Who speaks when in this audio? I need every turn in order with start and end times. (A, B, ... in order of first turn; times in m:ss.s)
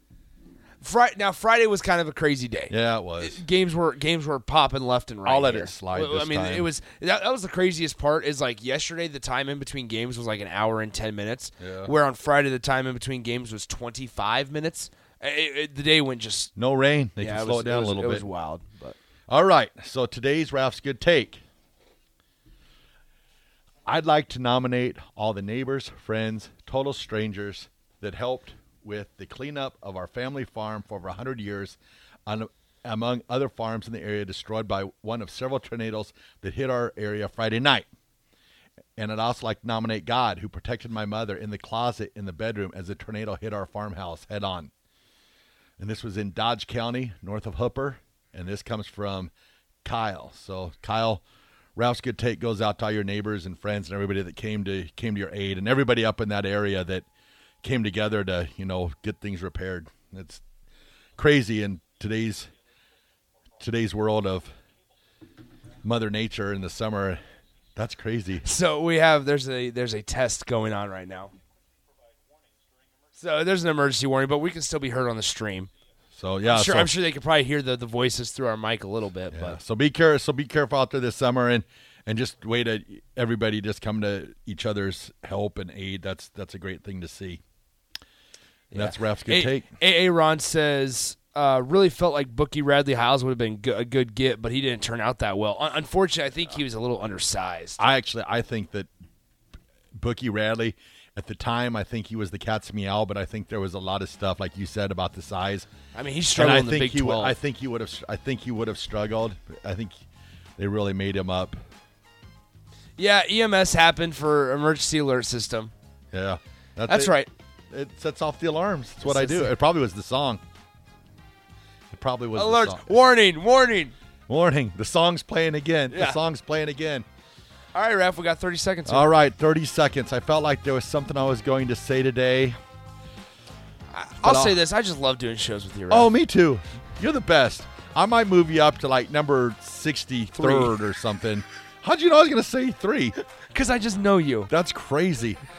0:00.8-0:16.5 A
0:02.7-0:03.4 B
0:05.2-0:06.7 B
0:11.6-0:11.9 B
0:16.6-0:18.3 B
0:17.2-0:19.0 A
0:19.3-0:21.4 B
0:23.8-0:37.8 B
0:39.0-0:44.7 B
0:45.8-0:49.3 B
0:49.8-0:51.2 B
0:51.8-0:57.0 B
0:57.6-1:00.4 B
1:01.2-1:02.5 B
1:03.6-1:04.5 B
1:05.8-1:07.2 B
1:07.8-1:08.4 B
1:08.4-1:11.3 A
1:13.1-1:15.7 A
1:16.2-1:16.9 B
1:16.4-1:19.6 A
1:19.3-1:27.4 B
1:28.7-1:37.8 A
1:28.7-1:29.7 B
1:37.8-1:38.9 B
1:40.0-1:45.7 B
1:45.9-1:47.4 A
1:46.3-1:50.0 B
1:50.6-1:51.6 B
1:53.0-1:55.7 A
1:56.1-1:57.2 B
1:56.8-1:57.3 A
1:57.7-2:00.4 B
1:59.0-1:59.5 A
2:01.9-2:02.9 B
2:02.3-2:03.9 A
2:04.3-2:07.0 B
2:05.9-2:06.2 A
2:07.7-2:09.1 A
2:08.8-2:12.6 B
2:13.9-2:16.1 A
2:14.2-2:14.6 B
2:15.9-2:23.2 B
2:20.4-2:20.7 A
2:23.5-2:24.5 A
2:24.5-2:25.4 B